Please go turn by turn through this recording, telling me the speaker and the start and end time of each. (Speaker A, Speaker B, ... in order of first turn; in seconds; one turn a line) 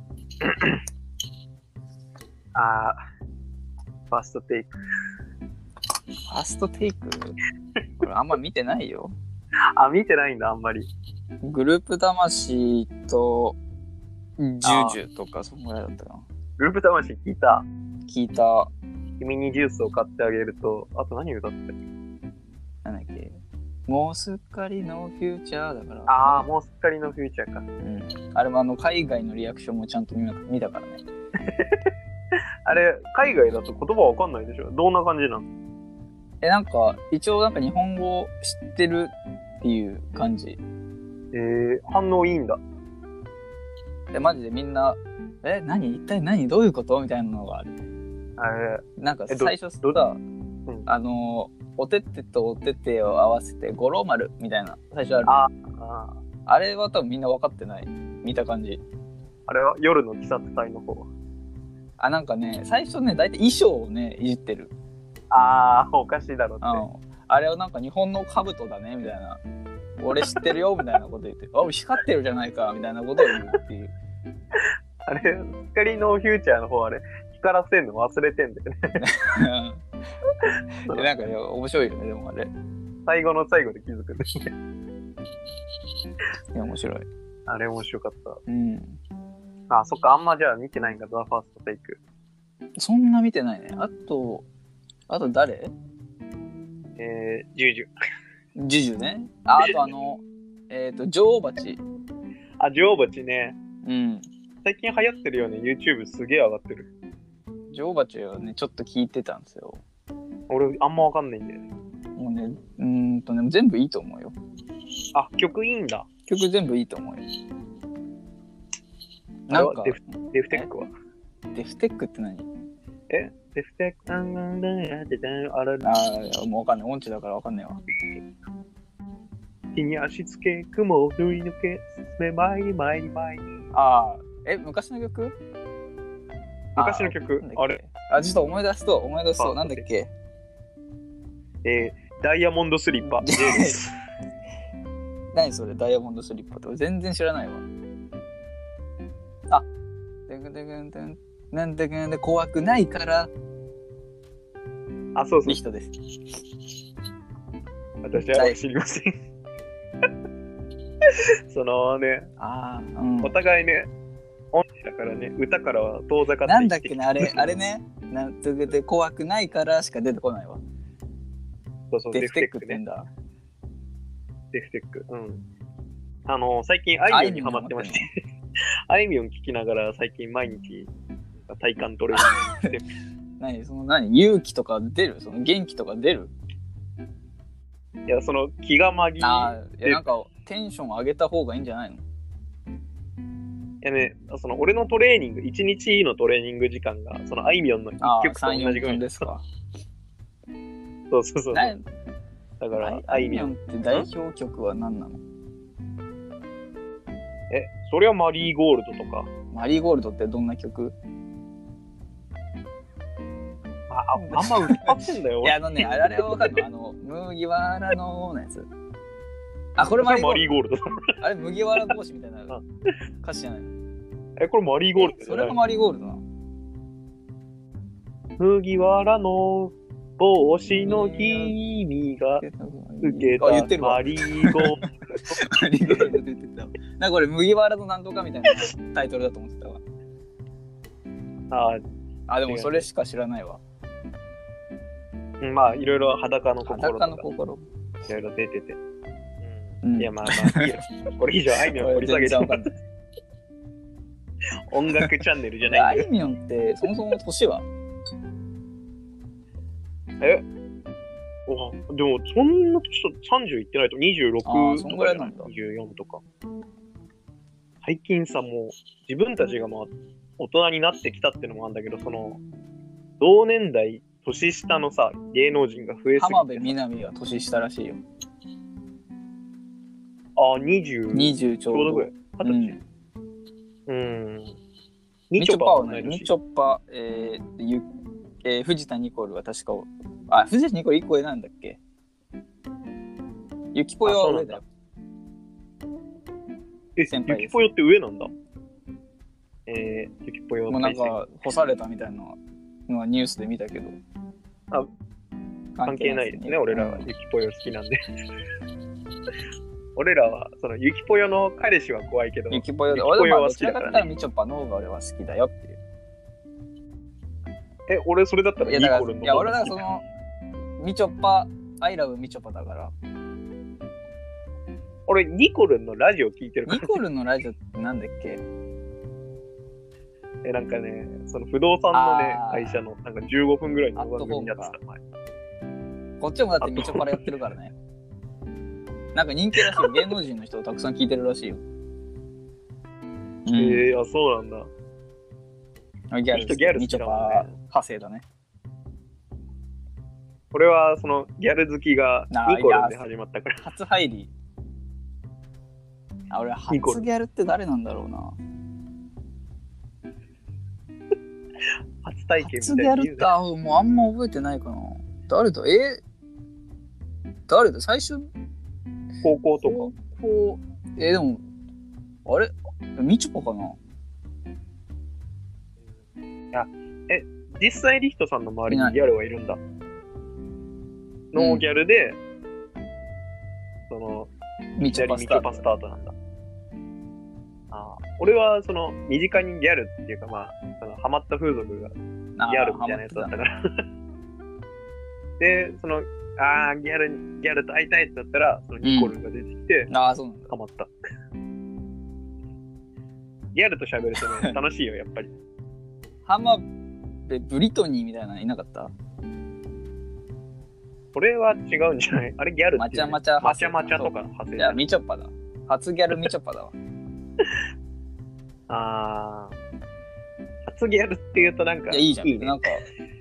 Speaker A: 0.4-0.8
Speaker A: 2.5-3.0
Speaker A: 4.1-4.7
Speaker B: 6.3-7.4
Speaker B: 8.0-9.1
Speaker A: 9.8-10.9
Speaker B: 11.4-13.6
Speaker B: 14.4-16.2
Speaker A: 14.6-15.0
Speaker A: 16.6-17.6
Speaker B: 18.1-18.7
Speaker A: 19.2-21.8
Speaker B: 22.8-23.4
Speaker B: 23.9-26.4
Speaker A: 26.1-27.6
Speaker B: 27.8-31.0
Speaker A: 31.5-31.8
Speaker A: 32.6-35.5
Speaker B: 36.4-40.6
Speaker A: 41.3-42.6
Speaker B: 44.1-47.7
Speaker A: 48.4-50.0
Speaker B: 49.0-50.2
Speaker B: 50.9-55.4
Speaker A: 55.2-56.2
Speaker B: 56.5-58.8
Speaker A: 59.5-61.1
Speaker B: 62.0-64.7
Speaker A: 65.3-66.8
Speaker B: 66.6-69.4
Speaker B: 70.0-73.9
Speaker A: 74.5-79.0
Speaker B: 79.0-79.8
Speaker B: 80.8-82.5
Speaker A: 83.0-84.5
Speaker B: 86.5-87.0
Speaker A: 87.5-88.4
Speaker B: 88.5-89.0
Speaker A: 89.7-92.0
Speaker B: 92.8-94.4
Speaker B: 95.1-95.7
Speaker A: 97.0-97.9
Speaker B: 98.5-101.8
Speaker A: 102.6-103.5
Speaker B: 103.8-104.2
Speaker A: 104.6-106.9
Speaker B: 107.7-109.8
Speaker A: 110.5-111.7
Speaker B: 112.2-114.3
Speaker A: 115.1-116.1
Speaker B: 116.3-117.2
Speaker B: 119.5-120.7
Speaker A: 119.5-120.9
Speaker B: 121.5-122.5
Speaker A: 123.1-125.8
Speaker B: 125.8-127.8
Speaker A: 129.7-133.6
Speaker B: 133.7-135.3
Speaker A: 136.8-137.8
Speaker B: 136.8-140.1
Speaker A: 139.4-139.8
Speaker A: 141.6-143.9
Speaker B: 143.2-143.8
Speaker B: 145.3-147.6
Speaker B: 150.3-153.3
Speaker A: 155.1-155.6
Speaker B: 155.4-155.9
Speaker A: 158.0-159.1
Speaker B: 158.1-158.6
Speaker A: 161.0-162.3
Speaker B: 162.4-163.3
Speaker A: 163.2-163.9
Speaker A: 164.5-167.5
Speaker B: 166.4-170.6
Speaker A: 171.9-172.8
Speaker B: 172.1-173.1
Speaker A: 174.5-175.4
Speaker A: 176.3-178.2
Speaker B: 177.1-178.1
Speaker A: 178.9-180.9
Speaker A: 181.4-182.9
Speaker B: 182.1-182.7
Speaker B: 183.4-186.3
Speaker A: 188.1-190.0
Speaker B: 189.2-192.0
Speaker A: 193.8-199.3
Speaker B: 198.0-199.4
Speaker A: 201.1-201.7
Speaker B: 201.5-201.8
Speaker A: 202.6-204.1
Speaker B: 202.7-205.2
Speaker A: 207.5-209.3
Speaker B: 209.5-210.9
Speaker A: 213.9-216.5
Speaker B: 214.2-218.7
Speaker B: 219.8-220.4
Speaker A: 219.8-221.1
Speaker B: 221.2-222.6
Speaker B: 223.2-223.7
Speaker A: 224.4-225.6
Speaker B: 224.9-226.2
Speaker A: 228.4-232.4
Speaker B: 230.8-231.5
Speaker B: 232.4-234.6
Speaker A: 233.0-235.4
Speaker B: 235.3-239.8
Speaker A: 241.5-241.8
Speaker B: 242.3-243.6
Speaker A: 242.5-242.8
Speaker A: 245.4-247.2
Speaker B: 246.7-247.6
Speaker A: 248.1-248.8
Speaker A: 249.5-252.7
Speaker B: 249.8-250.7
Speaker B: 251.7-252.8
Speaker A: 254.7-256.1
Speaker B: 255.7-257.6
Speaker A: 260.2-260.4
Speaker A: 261.5-266.2
Speaker B: 264.4-265.5
Speaker A: 267.8-272.4
Speaker A: 273.2-276.8
Speaker B: 276.2-278.0
Speaker A: 280.4-282.8
Speaker B: 281.1-282.8
Speaker A: 283.9-284.6
Speaker A: 285.3-286.3
Speaker B: 285.4-287.9
Speaker B: 288.4-291.8
Speaker B: 293.7-294.6
Speaker A: 294.0-294.6
Speaker A: 296.9-298.3
Speaker B: 297.1-297.7
Speaker A: 299.6-301.2
Speaker B: 300.7-304.0
Speaker B: 305.7-307.1
Speaker A: 305.8-308.0
Speaker A: 309.9-314.1
Speaker B: 312.5-315.8
Speaker A: 317.9-319.9
Speaker B: 318.6-320.0
Speaker B: 320.8-322.9
Speaker A: 325.1-327.0
Speaker B: 326.6-328.4
Speaker A: 330.4-335.0
Speaker B: 331.9-332.8
Speaker B: 333.9-334.7
Speaker B: 336.2-337.7
Speaker A: 336.6-337.2
Speaker B: 339.1-341.6
Speaker A: 339.6-340.1
Speaker B: 343.4-343.8
Speaker A: 343.5-344.7
Speaker B: 346.1-348.2
Speaker A: 346.3-347.5
Speaker A: 350.5-353.6
Speaker B: 352.3-353.0
Speaker B: 353.6-354.3
Speaker B: 356.3-358.4
Speaker A: 356.7-357.0
Speaker A: 362.0-363.3
Speaker B: 362.4-366.0
Speaker B: 367.5-368.3
Speaker A: 369.2-369.9
Speaker B: 369.6-371.4
Speaker B: 372.2-373.8
Speaker A: 376.5-379.6
Speaker B: 378.7-379.0
Speaker A: 381.3-382.2
Speaker B: 381.4-381.6
Speaker A: 383.9-384.3
Speaker B: 384.8-385.6
Speaker A: 384.9-386.1
Speaker A: 387.7-391.9
Speaker B: 392.4-393.3
Speaker A: 392.5-393.6
Speaker A: 395.4-399.9
Speaker B: 398.8-399.1
Speaker B: 399.9-400.5
Speaker A: 400.5-400.9
Speaker A: 403.5-405.3
Speaker B: 404.2-404.5
Speaker B: 406.2-406.6
Speaker B: 407.3-408.9
Speaker A: 411.1-414.8
Speaker B: 412.8-416.7
Speaker A: 418.7-419.5
Speaker A: 420.6-422.6
Speaker B: 421.9-422.8